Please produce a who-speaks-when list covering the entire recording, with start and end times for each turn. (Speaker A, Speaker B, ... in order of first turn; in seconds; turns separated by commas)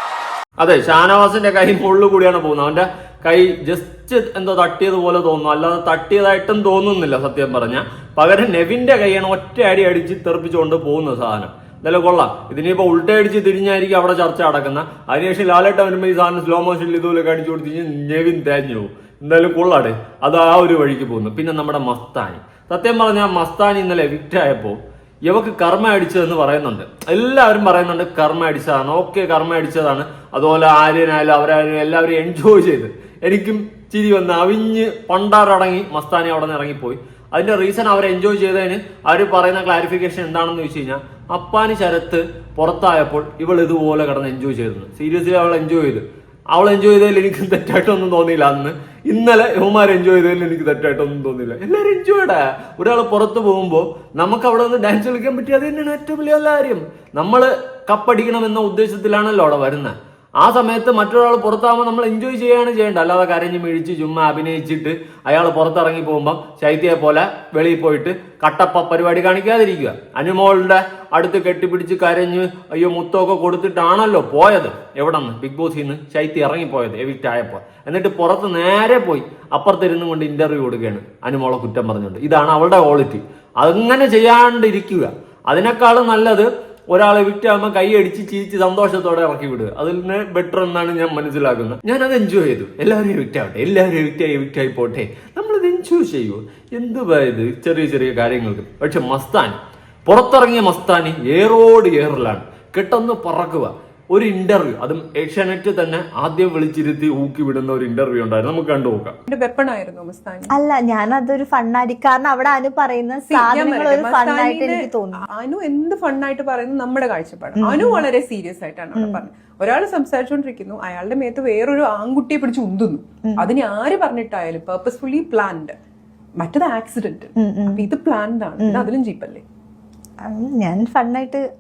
Speaker A: 0.6-99.5, Speaker A: 100.1-109.2, Speaker B: 109.3-110.5, Speaker C: 110.6-115.2, Speaker B: 113.3-125.7, Speaker C: 117.6-118.0, Speaker B: 126.4-129.4, Speaker C: 127.4-127.8, Speaker C: 130.2-131.4